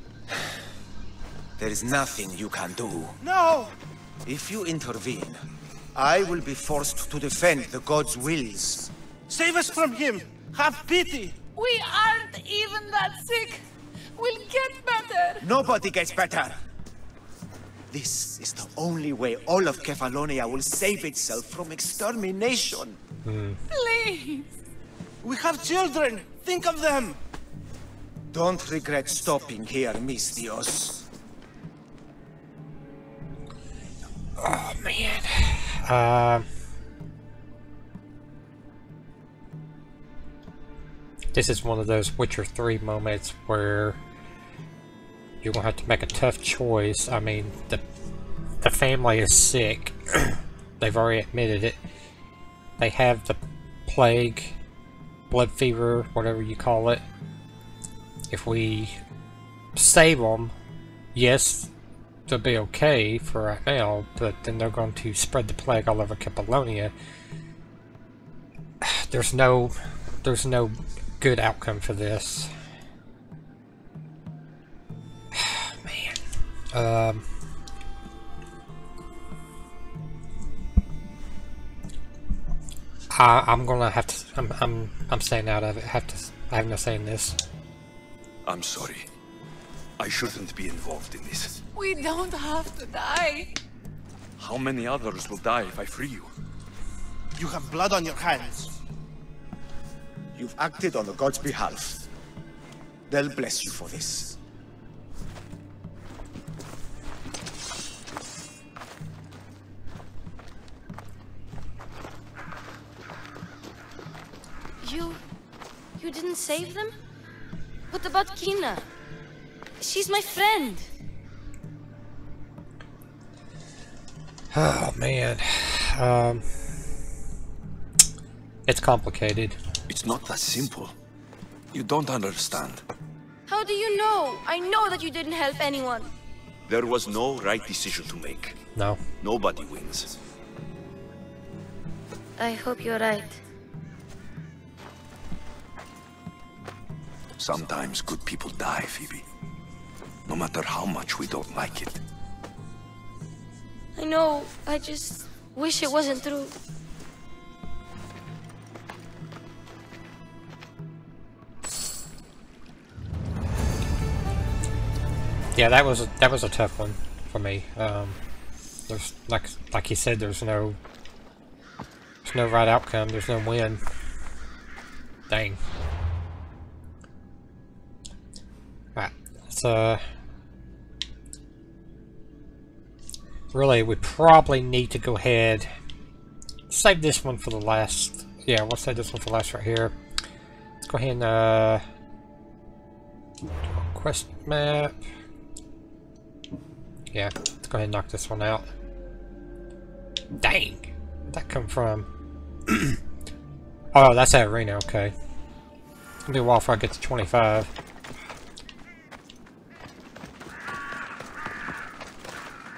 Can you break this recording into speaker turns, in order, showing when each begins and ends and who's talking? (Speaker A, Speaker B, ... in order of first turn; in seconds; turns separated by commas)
Speaker A: 1.6-3.2, Speaker B: 3.2-3.7, Speaker A: 4.2-5.4, Speaker A: 5.9-8.9, Speaker B: 9.3-11.4, Speaker C: 11.5-13.6, Speaker C: 14.2-15.5, Speaker A: 15.4-16.6, Speaker A: 17.9-23.0, Speaker D: 23.2-23.6, Speaker C: 23.7-24.5, Speaker B: 25.2-27.2, Speaker A: 28.3-31.0, Speaker D: 34.4-36.5, Speaker D: 41.3-44.0, Speaker D: 45.4-47.8, Speaker D: 48.6-51.8, Speaker D: 52.8-54.6, Speaker D: 55.3-57.0, Speaker D: 58.3-59.0, Speaker D: 59.8-60.5, Speaker D: 61.1-61.7, Speaker D: 62.3-66.9, Speaker D: 68.8-72.5, Speaker D: 75.3-76.2, Speaker D: 76.7-77.2, Speaker D: 83.1-87.4, Speaker E: 88.4-89.1, Speaker E: 90.0-91.5, Speaker C: 91.7-93.5, Speaker E: 94.4-96.3, Speaker B: 97.3-98.7, Speaker A: 100.3-102.0, Speaker A: 103.1-104.3, Speaker F: 114.8-115.2, Speaker F: 116.0-116.9, Speaker F: 117.9-118.8, Speaker F: 119.8-120.9, Speaker D: 124.5-126.5, Speaker D: 128.7-129.6, Speaker E: 129.9-130.9, Speaker E: 131.7-132.8, Speaker F: 133.5-136.1, Speaker E: 136.7-138.6, Speaker D: 138.7-139.0, Speaker E: 139.2-140.1, Speaker F: 142.4-143.4, Speaker E: 147.4-149.2, Speaker E: 150.2-152.0, Speaker F: 153.9-156.5, Speaker D: 165.5-168.2, Speaker D: 168.9-170.8, Speaker D: 172.2-173.8, Speaker D: 175.3-175.6, Speaker D: 178.9-180.0, Speaker D: 183.5-185.7, Speaker D: 186.7-189.9, Speaker D: 190.8-191.8, Speaker D: 193.6-195.0, Speaker D: 197.1-198.7, Speaker D: 200.4-202.1, Speaker D: 203.9-205.1, Speaker D: 206.3-207.7